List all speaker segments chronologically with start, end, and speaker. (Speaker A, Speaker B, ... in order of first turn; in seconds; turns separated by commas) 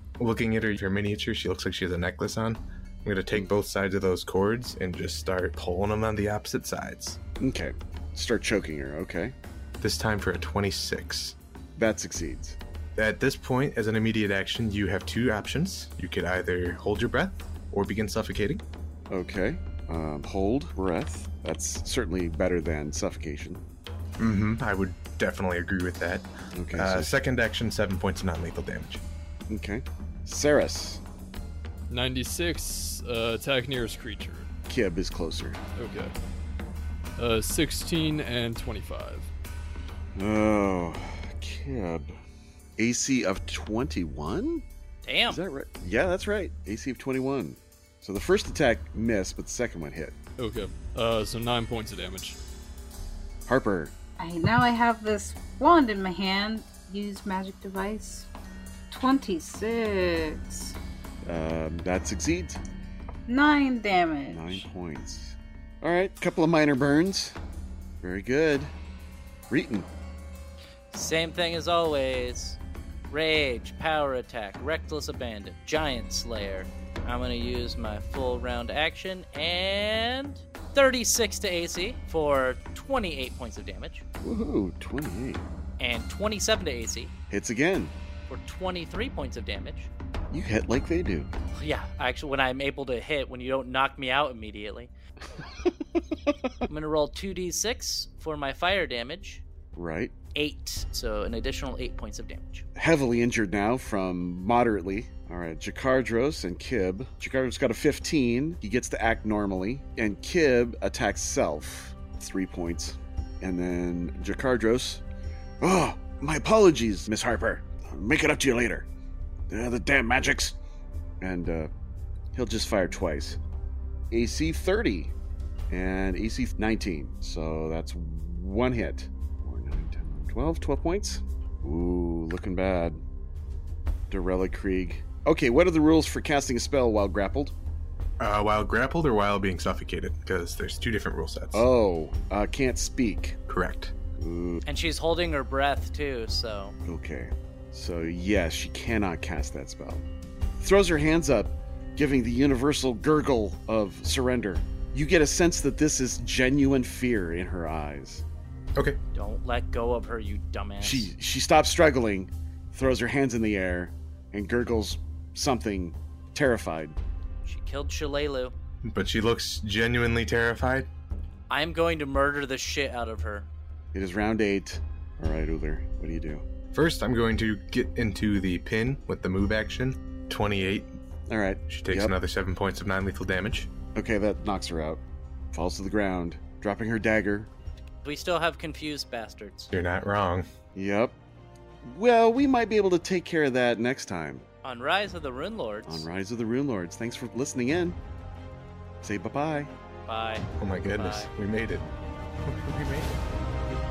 Speaker A: 0.2-7.2, Speaker B: 7.4-9.3, Speaker A: 9.8-11.4, Speaker B: 11.8-12.6, Speaker A: 12.9-18.6, Speaker B: 19.1-23.6, Speaker A: 24.2-29.0, Speaker B: 26.5-27.1, Speaker B: 29.5-31.0, Speaker C: 31.9-34.5, Speaker B: 34.7-35.6, Speaker C: 35.8-36.1, Speaker C: 37.2-39.3, Speaker B: 40.1-42.2, Speaker B: 42.8-44.6, Speaker D: 45.0-45.4, Speaker B: 45.3-50.1, Speaker C: 50.4-52.4, Speaker B: 53.5-53.9, Speaker E: 54.2-58.3, Speaker E: 58.9-60.8, Speaker B: 61.2-62.6, Speaker E: 63.3-64.6, Speaker B: 64.3-67.4, Speaker B: 68.0-68.7, Speaker B: 69.5-69.9, Speaker D: 70.9-84.0, Speaker B: 84.2-85.5, Speaker D: 85.8-87.1, Speaker B: 87.3-87.9, Speaker D: 88.3-89.9, Speaker B: 90.3-91.3, Speaker D: 91.5-94.9, Speaker D: 96.7-99.4, Speaker B: 99.7-100.1, Speaker D: 100.3-102.7, Speaker B: 102.8-115.0, Speaker B: 115.6-118.9, Speaker B: 119.5-120.5, Speaker B: 121.2-121.7, Speaker B: 122.3-123.4, Speaker B: 124.1-125.1, Speaker B: 125.7-133.0, Speaker B: 134.1-137.5, Speaker A: 138.2-141.6, Speaker B: 141.5-143.4, Speaker A: 143.5-143.9, Speaker B: 144.1-144.6, Speaker D: 144.6-146.8, Speaker B: 146.8-150.1, Speaker B: 150.6-158.2, Speaker D: 159.1-161.1, Speaker B: 160.8-167.0, Speaker D: 167.4-168.5, Speaker A: 168.8-170.9, Speaker D: 171.5-173.5, Speaker B: 173.9-176.4, Speaker A: 176.7-180.9, Speaker B: 181.3-182.1, Speaker A: 181.7-183.7, Speaker B: 183.9-187.5, Speaker D: 188.0-189.7, Speaker A: 189.7-190.5, Speaker B: 190.7-191.2, Speaker B: 191.8-194.4, Speaker D: 194.6-196.1, Speaker B: 195.8-198.0, Speaker B: 199.0-199.7, Speaker D: 200.1-201.3, Speaker A: 200.6-201.9, Speaker A: 202.4-203.2